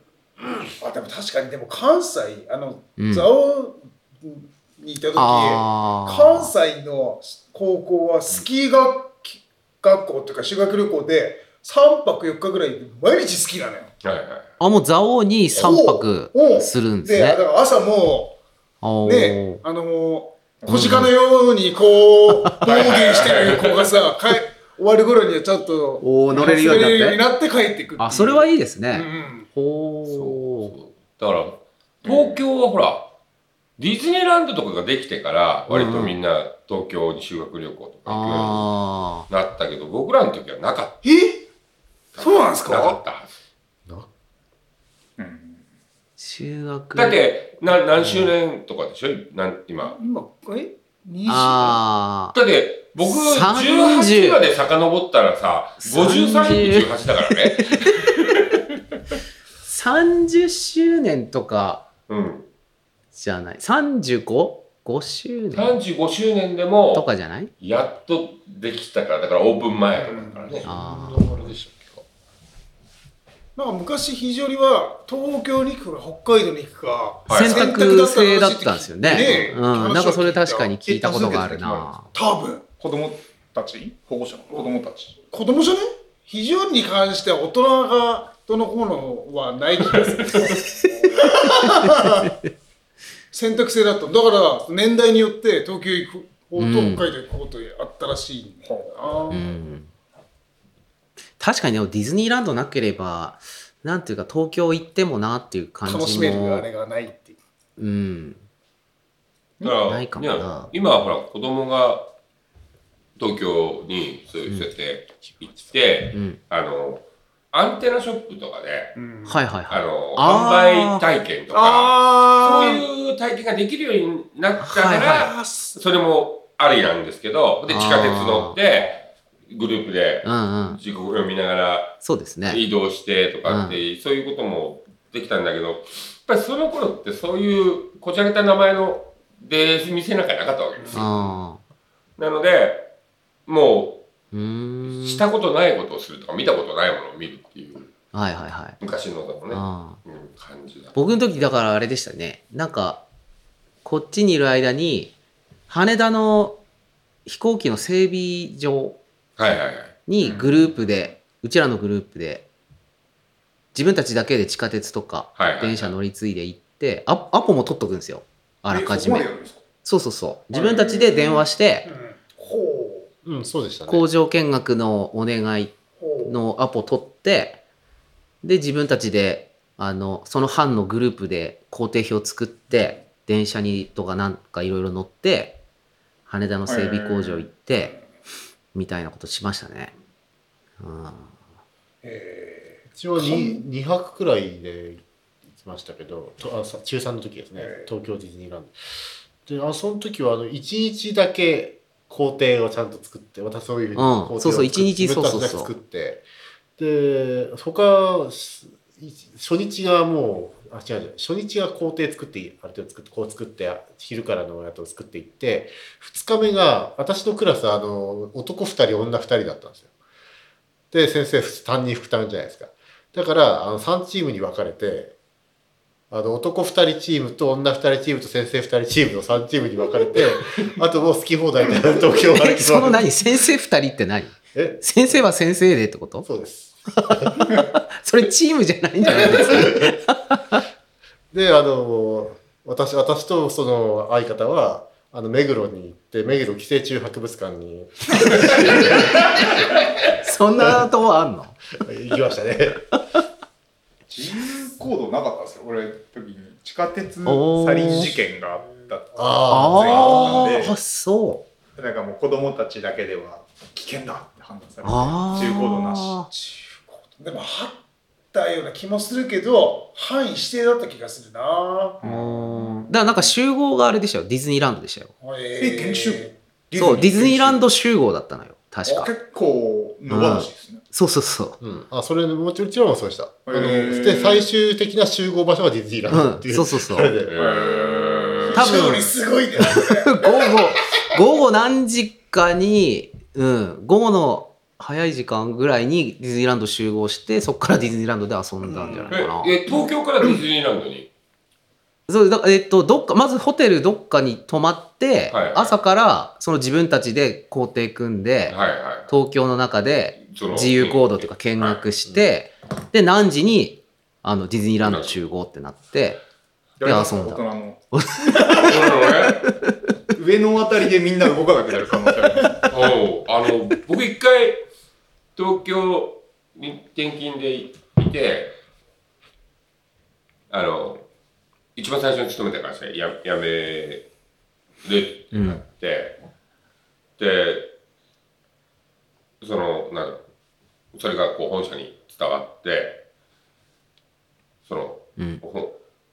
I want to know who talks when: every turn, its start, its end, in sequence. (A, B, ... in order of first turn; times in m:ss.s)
0:00.8-0:13.9 A
0:03.0-0:03.3 B
0:05.2-0:06.5 B
0:14.0-0:14.5 C
0:14.6-0:17.4 B
0:15.5-0:18.4 A
0:18.8-0:19.6 B
0:19.0-0:29.5 A
0:20.6-0:20.9 D
0:20.7-0:21.1 B
0:22.6-0:23.9 C
0:26.0-0:27.2 B
0:28.0-0:30.7 B
0:30.0-0:33.1 C
0:32.0-0:32.4 D
0:33.8-0:38.7 C
0:35.7-0:36.2 B
0:38.0-0:39.3 B
0:39.3-0:41.0 C
0:41.0-0:41.5 A
0:42.1-0:43.3 C
0:42.2-0:43.0 A
0:45.2-0:45.6 D
0:46.2-0:47.2 B
0:47.0-0:50.0 C
0:47.9-0:48.3 B
0:49.8-0:51.8 A
0:51.2-0:52.3 B
0:52.3-0:58.1 C
0:53.0-0:54.4 B
0:55.8-0:57.3 B
0:59.6-1:01.8 B
1:02.1-1:02.5 C
1:03.1-1:05.8 B
1:05.5-1:10.7 C
1:06.9-1:07.5 B
1:09.9-1:10.7 A
1:10.5-1:12.0 E
1:10.6-1:11.3 B
1:13.6-1:20.8 A
1:17.3-1:17.7 C
1:17.3-1:22.1 B
1:19.1-1:19.6 C
1:20.8-1:22.0 D
1:22.1-1:22.6 A
1:22.8-1:25.1 D
1:25.3-1:32.3 A
1:30.2-1:30.5 C
1:30.5-1:32.3 B
1:33.3-1:39.4 A
1:36.6-1:37.1 B
1:38.6-1:39.4 D
1:39.3-1:39.9 B
1:41.4-1:46.7 B
1:45.8-1:47.4 A
1:47.8-1:48.4 B
1:49.6-1:52.1 C
1:49.8-1:50.7 B
1:53.2-1:59.0 C
1:56.1-1:56.4 B
1:58.9-1:59.4 A
1:59.2-2:01.0 B
1:59.7-2:21.1 C
2:01.5-2:02.8 A
2:04.6-2:05.3 B
2:05.0-2:05.8 A
2:07.7-2:08.5 B
2:10.2-2:10.8 B
2:12.0-2:12.6 B
2:13.4-2:13.8 B
2:20.8-2:21.4 A
2:20.9-2:21.6 B
2:22.2-2:22.9 C
2:23.5-2:24.0 C
2:24.3-2:25.2 B
2:24.8-2:27.9 C
2:28.1-2:28.8 B
2:28.8-2:31.0 C
2:29.5-2:30.0 B
2:30.9-2:33.0 B
2:33.8-2:35.1 B
2:35.7-2:36.6 B
2:37.2-2:39.0 B
2:39.4-2:40.0 C
2:40.1-2:42.5 B
2:40.2-2:41.1 D
2:43.7-2:49.3 B
2:45.4-2:46.0 C
2:48.7-2:49.6 D
2:49.8-2:51.9 B
2:50.5-2:51.5 D
2:51.8-2:53.1 A
2:53.2-2:54.0 E
2:53.9-2:57.6 B
2:56.0-2:56.4 A
2:58.4-3:05.6 B
3:06.2-3:08.0 B
3:06.6-3:07.5 D
3:08.7-3:09.9 B
3:10.8-3:11.3 B
3:12.0-3:13.6 A
3:12.9-3:15.0 E
3:15.6-3:18.8 E
3:17.6-3:17.9 A
3:19.4-3:26.2 E
3:24.0-3:25.7 B
3:26.8-3:39.9 E
3:40.9-3:45.1 E
3:46.1-3:53.1 E
3:52.3-3:56.3 B
3:54.5-3:54.8 E
3:56.2-3:57.5 E
3:57.1-4:00.3 B
3:59.1-3:59.9 E
4:01.3-4:09.3 E
4:08.4-4:08.7 B
4:10.1-4:11.6 B
4:11.8-4:12.8 E
4:14.1-4:20.8 D
4:17.2-4:18.2 B
4:18.7-4:19.3 A
4:19.2-4:20.4 E
4:19.5-4:21.4 B
4:21.8-4:26.2 D
4:24.8-4:26.3 B
4:26.2-4:32.0 A
4:32.0-4:32.9 D
4:32.0-4:35.1 B
4:35.2-4:36.3 A
4:35.6-4:37.6 D
4:36.7-4:39.1 B
4:38.8-4:40.8 D
4:40.1-4:41.6 B
4:41.6-4:47.3 E
4:43.4-4:44.5 D
4:46.1-4:47.1 B
4:47.3-4:48.9 C
4:47.4-4:48.8 D
4:48.5-4:50.3 A
4:48.5-4:59.6 B
4:58.6-4:59.2 A
4:59.1-5:01.1 C
5:02.1-5:08.6 B
5:05.3-5:05.8 C
5:08.5-5:09.2 C
5:09.1-5:16.2 B
5:10.3-5:11.8 C
5:14.8-5:15.2 C
5:16.8-5:17.8 D
5:16.8-5:18.9 B
5:18.4-5:19.4 C
5:20.1-5:22.7 D
5:22.7-5:24.6 C
5:25.4-5:28.6 C
5:30.5-5:31.0 C
5:31.7-5:34.1 C
5:34.8-5:36.2 C
5:35.3-5:35.6 B
5:37.2-5:37.7 C
5:39.4-5:40.2 C
5:40.9-5:43.0 C
5:44.6-5:45.8 C